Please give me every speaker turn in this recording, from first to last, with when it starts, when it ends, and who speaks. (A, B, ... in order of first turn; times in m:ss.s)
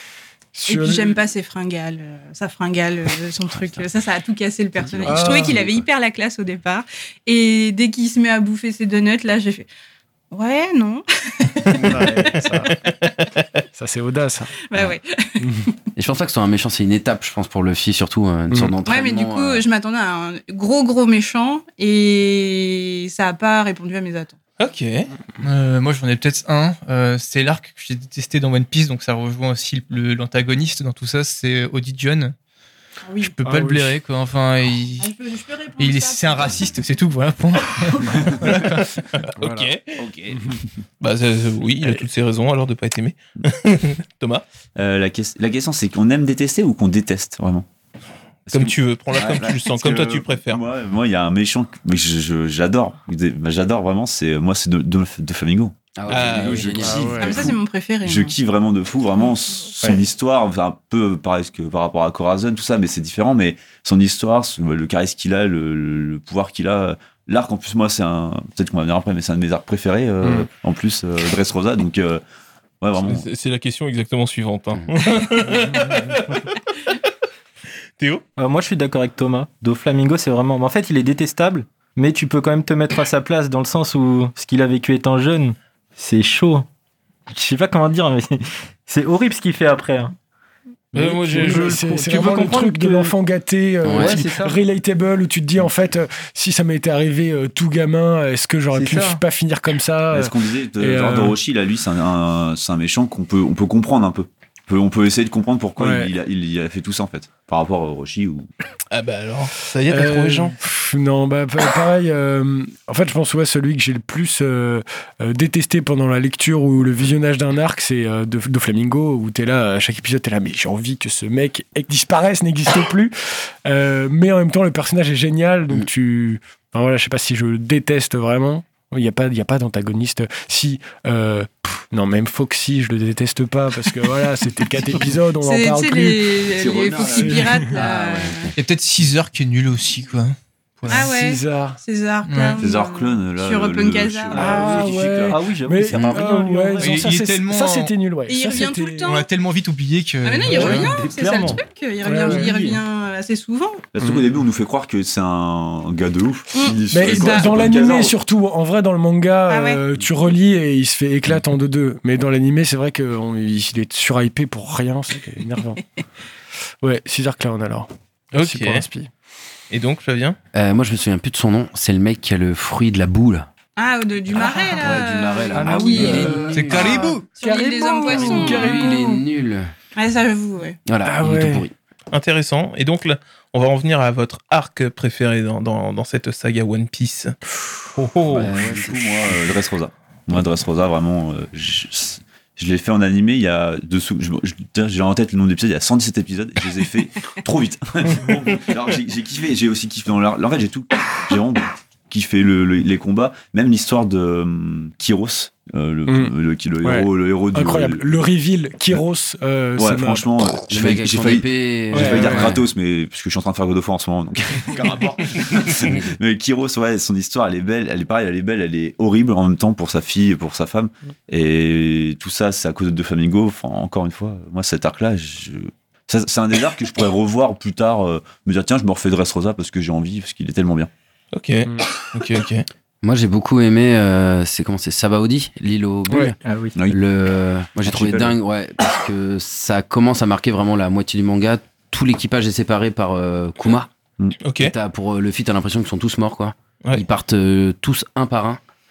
0:00.5-0:01.2 A
0:00.7-0:09.7 B
0:04.8-0:05.8 C
0:05.1-0:05.6 A
0:10.3-0:11.9 B
0:11.7-0:12.7 A
0:12.7-0:13.3 D
0:13.8-0:14.5 A
0:14.7-0:15.7 B
0:16.0-0:19.6 C
0:18.8-0:24.4 B
0:24.6-0:25.1 D
0:25.4-0:32.4 E
0:33.0-0:33.3 B
0:33.2-0:35.1 E
0:33.4-0:34.0 A
0:35.0-0:36.7 B
0:35.8-0:38.8 E
0:37.9-0:38.2 B
0:38.4-0:40.0 D
0:39.3-0:39.8 A
0:40.0-0:40.4 F
0:41.0-0:44.4 D
0:44.8-0:47.7 F
0:48.5-0:57.5 F
0:48.5-0:50.6 D
0:56.0-0:57.5 C
0:56.1-0:56.8 D
0:56.8-0:57.5 A
0:57.2-0:58.4 B
0:58.0-1:12.2 F
1:10.2-1:10.5 A
1:12.8-1:13.2 F
1:13.0-1:16.4 D
1:18.0-1:18.2 D
1:18.4-1:26.7 G
1:27.3-1:30.2 G
1:30.9-1:32.1 D
1:30.9-1:33.2 G
1:31.3-1:41.4 A
1:33.8-1:34.2 C
1:33.9-1:34.6 G
1:38.7-1:39.2 G
1:40.1-1:48.5 F
1:45.8-1:46.1 A
1:48.9-1:50.6 D
1:49.9-2:16.4 A
2:15.4-2:18.5 B
2:16.6-2:17.6 F
2:17.0-2:17.7 A
2:17.7-2:18.5 C
2:18.6-2:21.1 E
2:20.9-2:21.8 A
2:20.9-2:24.7 B
2:22.3-2:22.6 E
2:22.6-2:25.4 F
2:24.3-2:29.2 A
2:25.3-2:26.9 G
2:25.9-2:26.2 C
2:25.9-2:26.2 F
2:26.8-2:27.9 E
2:28.3-2:29.3 B
2:29.1-2:30.8 E
2:30.2-2:33.8 B
2:30.5-2:31.6 G
2:30.6-2:30.8 A
2:32.0-2:32.5 A
2:32.1-2:32.8 G
2:33.9-2:38.2 F
2:36.5-2:37.5 B
2:36.9-2:45.8 A
2:39.5-2:39.8 B
2:46.8-2:49.1 A
2:48.4-2:48.8 D
2:49.7-2:50.4 D
2:50.5-2:53.5 C
2:53.8-2:59.1 B
2:54.4-2:57.0 C
2:55.5-2:59.2 A
2:56.5-2:57.3 E
2:58.1-2:59.7 C
3:00.0-3:00.8 B
3:00.9-3:01.7 C
3:01.0-3:01.6 A
3:02.1-3:07.4 D
3:08.3-3:09.4 C
3:08.4-3:28.3 F
3:26.1-3:30.3 A
3:29.8-3:50.9 F
3:30.7-3:32.6 C
3:31.9-3:32.6 A
3:51.3-3:52.7 D
3:53.0-3:56.4 C
3:56.4-3:56.8 G
3:56.9-4:03.9 C
3:57.8-3:58.4 F
4:04.4-4:04.7 D
4:04.6-4:08.6 C